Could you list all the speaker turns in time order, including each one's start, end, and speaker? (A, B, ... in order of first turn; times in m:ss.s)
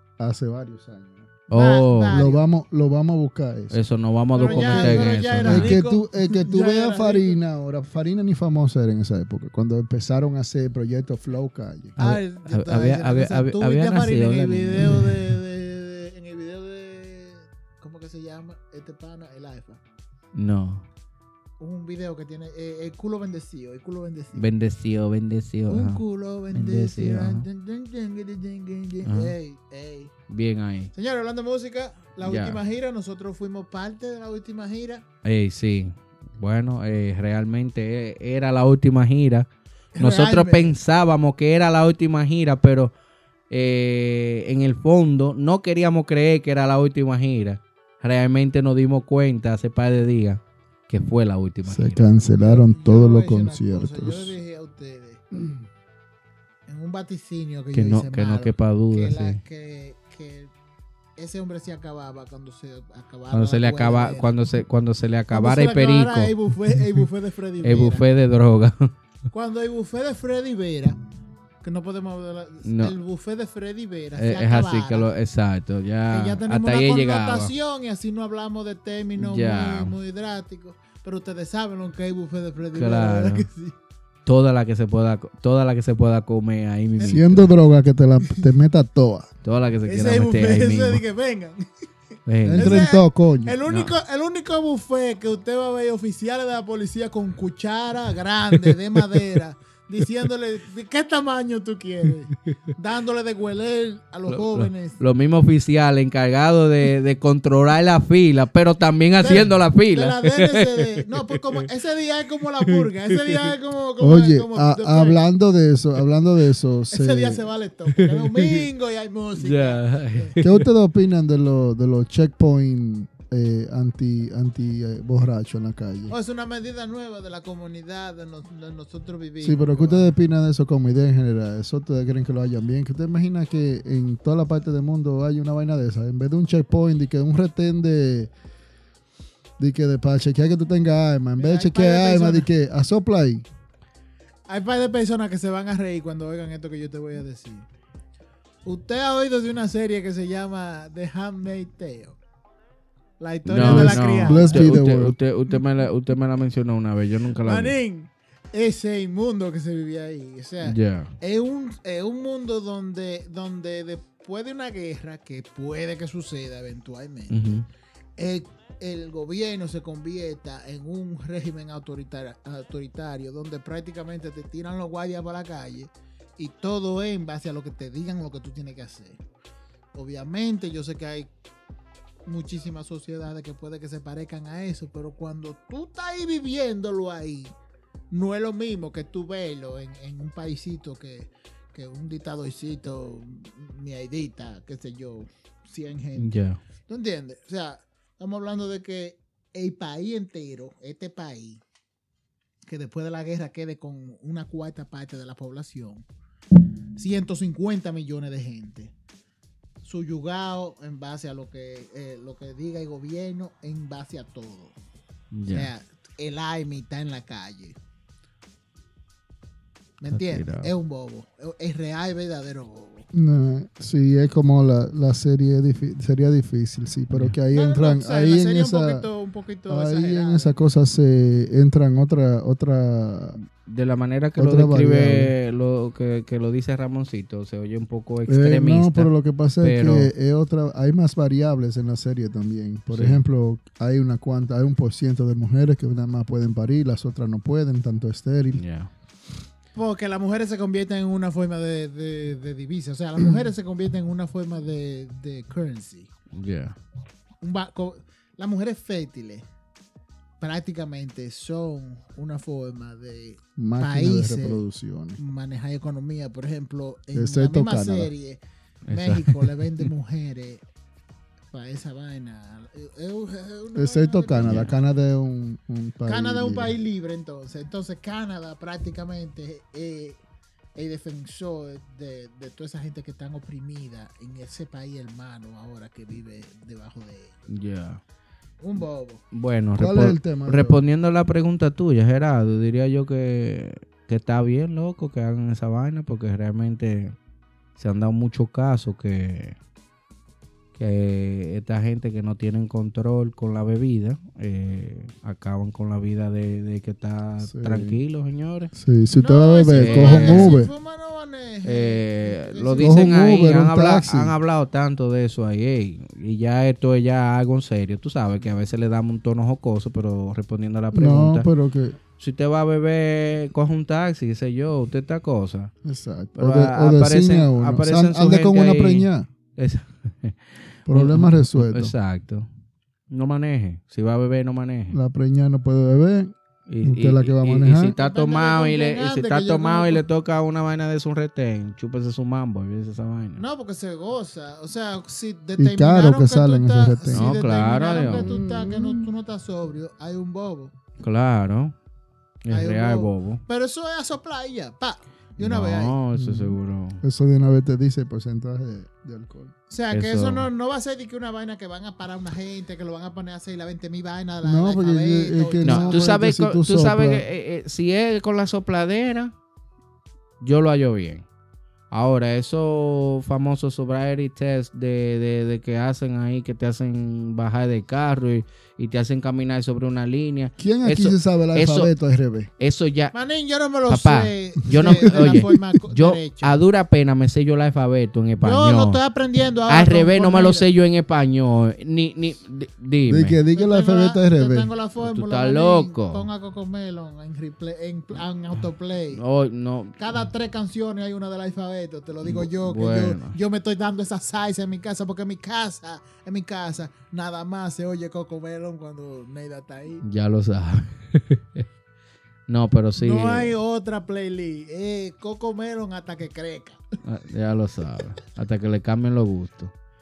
0:00.2-0:01.3 A
0:01.5-0:02.2 B
0:01.5-0:02.4 C
0:02.1-0:03.8 A
0:03.7-0:05.7 B
0:04.3-0:07.4 C
0:04.5-0:12.0 A
0:12.0-0:15.3 B
0:12.0-0:19.8 C
0:20.3-0:20.9 B
0:21.6-0:24.5 C
0:24.3-0:26.0 B
0:25.7-0:30.1 C
0:26.5-0:27.4 B
0:29.0-0:29.3 B
0:30.3-0:30.9 B
0:30.9-0:35.0 C
0:32.2-0:32.6 B
0:35.2-0:42.9 B
0:39.9-0:40.8 C
0:43.5-0:52.1 B
0:51.7-0:54.3 A
0:52.4-0:55.2 C
0:56.7-1:00.5 C
0:57.7-0:59.4 B
1:01.2-1:04.4 C
1:03.3-1:06.3 B
1:05.3-1:08.1 C
1:07.6-1:08.9 B
1:09.3-1:11.0 C
1:11.6-1:15.1 C
1:12.6-1:13.0 B
1:14.2-1:17.5 B
1:16.1-1:23.7 C
1:19.2-1:20.0 B
1:22.7-1:23.5 B
1:24.2-1:27.5 B
1:27.0-1:27.2 C
1:27.1-1:29.3 A
1:29.4-1:31.0 B
1:29.8-1:31.6 C
1:32.2-1:32.8 B
1:32.4-1:33.5 A
1:32.5-1:45.0 C
1:33.7-1:33.9 B
1:38.5-1:39.2 B
1:44.3-1:51.6 B
1:49.2-1:55.2 C
1:52.6-1:53.5 B
1:54.0-1:57.4 A
1:56.9-2:00.4 C
1:57.9-1:58.6 B
1:59.4-2:00.6 B
2:00.4-2:06.1 A
2:06.1-2:10.1 C
2:09.4-2:18.3 A
2:19.6-2:23.4 A
2:21.4-2:22.5 C
2:24.4-2:27.6 C
2:28.6-2:32.2 C
2:33.2-2:34.7 C
2:33.4-2:37.8 B
2:33.5-2:35.2 A
2:37.4-2:47.4 C
2:40.6-2:41.1 B
2:47.3-2:47.7 B
2:48.2-2:59.2 C
2:59.9-3:01.3 C
3:02.2-3:07.5 C
3:08.1-3:16.3 C
3:16.2-3:16.6 B
3:16.9-3:21.6 C
3:22.6-3:26.0 C
3:27.0-3:28.9 C
3:29.8-3:34.7 C
3:35.3-3:35.7 B
3:35.5-3:37.8 C
3:40.0-3:43.1 C
3:40.1-3:40.7 B
3:43.1-3:49.0 A
3:47.1-3:47.4 B
3:47.5-3:50.6 C
3:49.7-3:53.4 A
3:53.4-4:00.1 B
3:54.4-3:55.3 A
3:58.3-4:08.6 A
4:02.9-4:03.2 B
4:08.5-4:08.9 B
4:09.7-4:16.1 C
4:16.3-4:16.8 B
4:17.4-4:19.4 C
4:20.4-4:24.6 C
4:23.6-4:25.2 A
4:25.2-4:28.4 C
4:27.1-4:28.1 A
4:28.9-4:29.9 B
4:28.9-4:30.6 C
4:31.5-4:34.7 C
4:33.7-4:36.7 A
4:34.4-4:34.7 B
4:36.0-4:40.2 C
4:40.8-4:47.4 C
4:47.5-4:48.0 B
4:48.6-4:49.2 C
4:49.3-4:57.1 B
4:49.8-4:50.8 A
4:57.8-4:59.6 B
5:00.8-5:08.7 B
5:07.4-5:08.0 A
5:08.7-5:10.7 A
5:09.2-5:13.0 C
5:09.7-5:10.5 B
5:11.6-5:21.4 B
5:12.8-5:14.3 A
5:20.9-5:22.0 A
5:22.2-5:25.7 B
5:25.8-5:29.3 A
5:26.4-5:32.5 B
5:30.9-5:31.9 A
5:33.1-5:35.0 B
5:34.9-5:37.9 A
5:36.7-5:43.4 B
5:38.0-5:40.0 C
5:43.4-5:50.8 C
5:45.6-5:47.3 A
5:47.1-5:48.3 B
5:48.0-5:49.1 A
5:51.0-5:51.7 B
5:52.4-5:53.4 B
5:52.5-5:56.0 C
5:55.4-5:57.0 B
5:56.1-5:59.5 A
5:59.7-6:06.0 C
5:59.9-6:00.5 B
6:04.4-6:07.2 A
6:05.6-6:09.3 B
6:10.4-6:11.3 B
6:11.9-6:21.9 B
6:20.6-6:22.5 A
6:22.6-6:23.1 B
6:23.1-6:26.6 C
6:23.9-6:29.0 B
6:24.7-6:25.6 A
6:28.4-6:30.7 C
6:29.7-6:33.4 B
6:33.1-6:34.7 A
6:33.5-6:39.2 C
6:35.0-6:36.3 B
6:39.1-6:40.0 B
6:40.0-6:50.0 C
6:42.2-6:43.4 B
6:50.0-6:51.6 B
6:52.5-6:53.6 B
6:53.0-6:56.8 C
6:57.0-6:59.7 B